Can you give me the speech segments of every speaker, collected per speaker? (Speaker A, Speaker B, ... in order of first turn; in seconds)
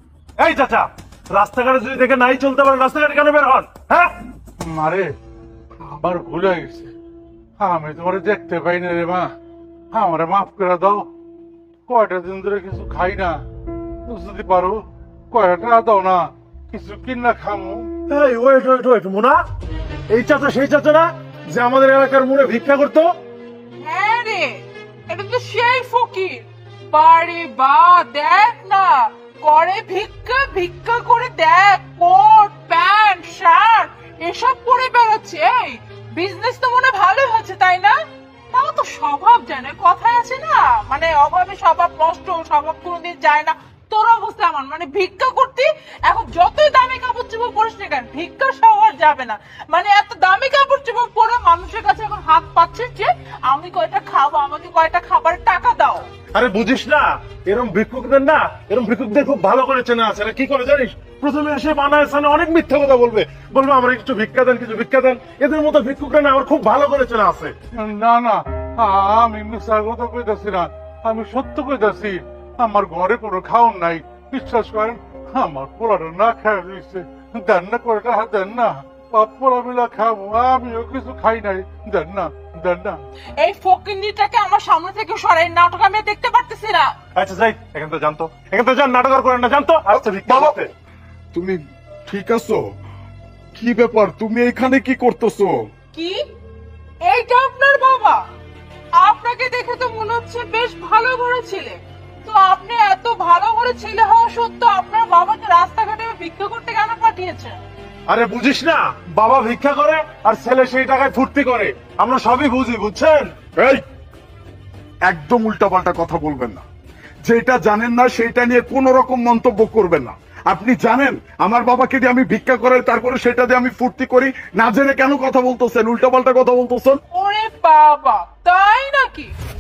Speaker A: 0.4-4.1, 18.1-19.4, 20.1-23.1, 56.4-67.6, 87.2-90.7, 108.1-113.3
Speaker B: 4.6-5.2, 5.8-6.9, 7.6-9.3, 9.9-11.1, 11.9-13.4, 14.1-17.9, 67.7-83.0
Speaker C: 23.8-38.0, 38.5-56.0, 83.4-86.9, 95.9-96.2, 97.1-98.2, 99.0-107.5, 127.1-129.3
Speaker D: 89.9-90.6, 91.3-92.6, 93.5-95.5, 113.6-113.8, 115.1-116.6, 117.2-127.0